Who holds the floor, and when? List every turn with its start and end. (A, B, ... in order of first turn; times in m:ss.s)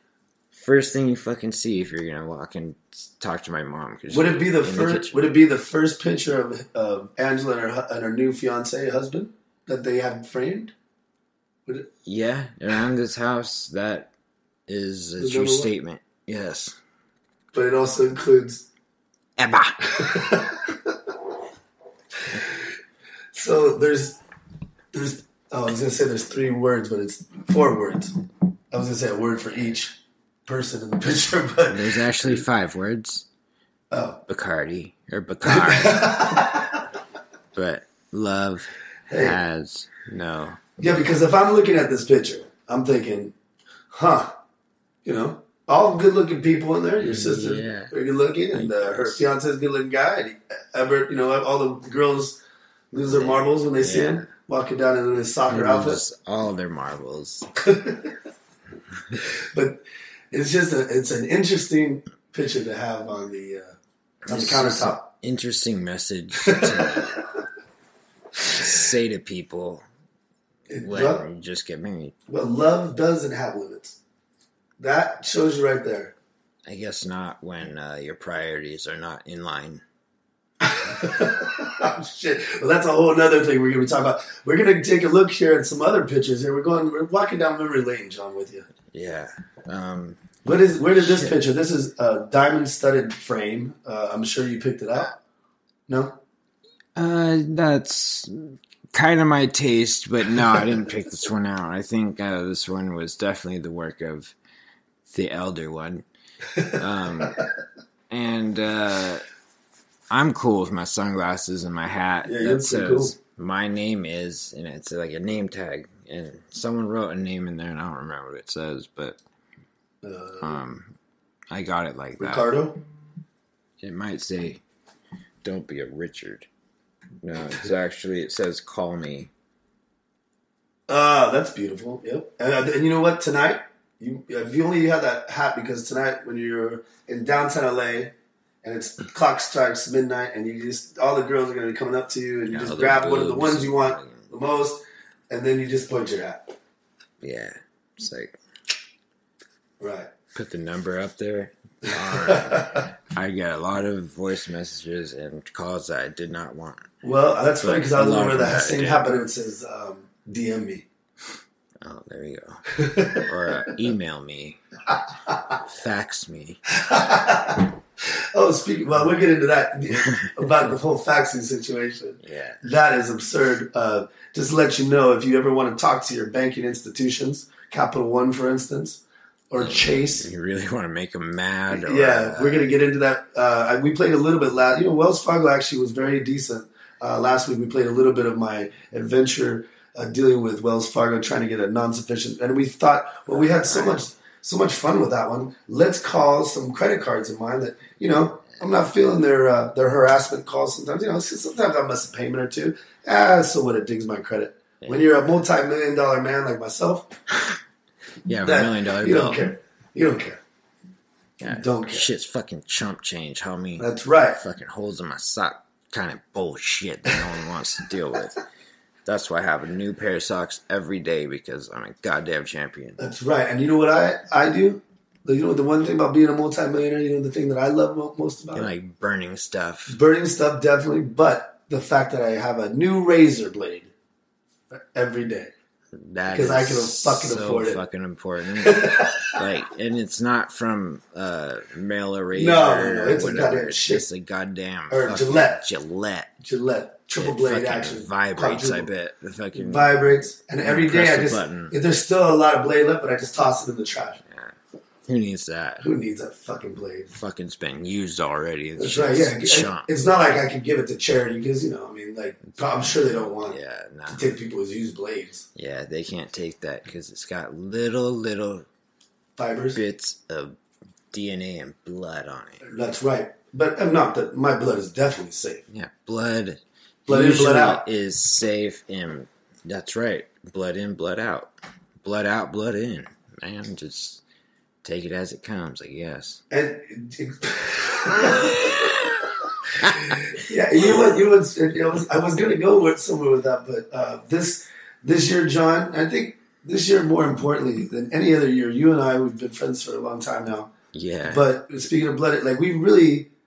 0:00.5-0:05.3 A
0:04.1-0:10.7 B
0:12.0-0:14.1 A
0:14.7-0:16.8 A
0:15.2-0:15.7 B
0:17.5-0:18.6 B
0:19.4-0:19.8 A
0:19.9-0:20.9 B
0:23.3-0:24.2 B
0:24.9-0:28.1 B
0:28.7-0:30.0 B
0:30.5-0:32.3 B
0:31.7-0:33.2 A
0:33.9-0:34.2 B
0:34.3-0:36.5 A
0:35.4-0:36.8 B
0:37.5-0:40.7 A
0:39.1-0:39.4 B
0:40.8-0:43.3 B
0:43.9-0:44.3 B
0:45.0-0:52.4 B
0:47.0-0:47.9 A
0:48.5-0:49.2 A
0:52.9-0:56.0 B
0:53.0-0:54.3 A
0:55.5-0:57.5 A
0:57.6-0:58.1 B
0:59.5-1:03.7 B
1:04.2-1:07.2 A
1:04.3-1:05.1 B
1:06.5-1:07.1 B
1:08.4-1:09.8 A
1:10.7-1:11.2 B
1:10.8-1:12.1 A
1:12.3-1:14.0 B
1:14.8-1:16.1 B
1:16.6-1:19.8 A
1:20.6-1:28.7 B
1:28.9-1:30.3 A
1:30.4-1:35.2 B
1:30.8-1:31.4 A
1:35.9-1:36.2 B
1:37.0-1:44.3 A
1:45.0-1:46.0 A
1:46.8-1:47.4 A
1:48.1-1:49.2 A
1:50.1-1:59.2 A
1:52.2-1:53.1 B
2:00.0-2:00.5 B
2:00.4-2:00.9 A
2:01.5-2:02.5 A
2:02.2-2:02.8 B
2:03.8-2:04.6 A
2:05.4-2:06.5 A
2:07.2-2:09.3 A
2:10.9-2:26.5 B
2:22.5-2:24.3 A
2:27.2-2:28.3 A
2:29.8-2:30.1 B
2:30.3-2:36.9 A
2:31.9-2:32.9 B
2:37.0-2:40.8 B
2:37.6-2:39.0 A
2:41.8-2:44.6 A
2:42.8-2:43.2 B
2:45.6-2:46.6 A
2:46.8-2:47.7 B
2:48.3-3:00.3 B
2:49.9-2:50.7 A
2:52.2-2:52.6 A
2:59.6-3:02.8 A
3:01.7-3:27.1 B
3:13.3-3:14.1 A
3:24.8-3:25.2 A
3:28.2-3:29.5 A
3:28.4-3:30.4 B
3:31.4-3:38.4 A
3:31.4-3:32.1 B
3:33.8-3:34.4 B
3:39.0-3:43.0 A
3:43.0-3:48.7 B
3:48.5-3:50.0 A
3:49.9-3:53.9 B
3:54.7-3:55.5 B
3:55.9-4:06.3 A
3:56.3-3:57.8 B
3:58.6-3:59.3 B
4:02.3-4:04.0 B
4:04.9-4:05.6 B
4:06.4-4:08.9 B
4:07.2-4:11.7 A
4:09.5-4:14.2 B
4:14.3-4:14.5 A
4:15.0-4:15.8 A
4:15.8-4:17.1 B
4:17.1-4:19.9 A
4:18.8-4:23.6 B
4:22.6-4:24.3 A
4:24.1-4:25.4 B
4:25.6-4:28.6 A
4:29.4-4:29.8 B
4:29.7-4:30.5 A
4:31.1-4:32.6 A
4:32.6-4:35.6 B
4:35.7-4:41.5 A
4:37.1-4:37.8 B
4:42.0-4:44.2 A
4:44.8-4:46.4 A
4:46.5-4:48.8 B
4:48.2-4:49.2 A
4:49.9-5:00.7 B
4:50.8-4:51.0 A
5:00.9-5:01.4 A
5:01.2-5:03.3 B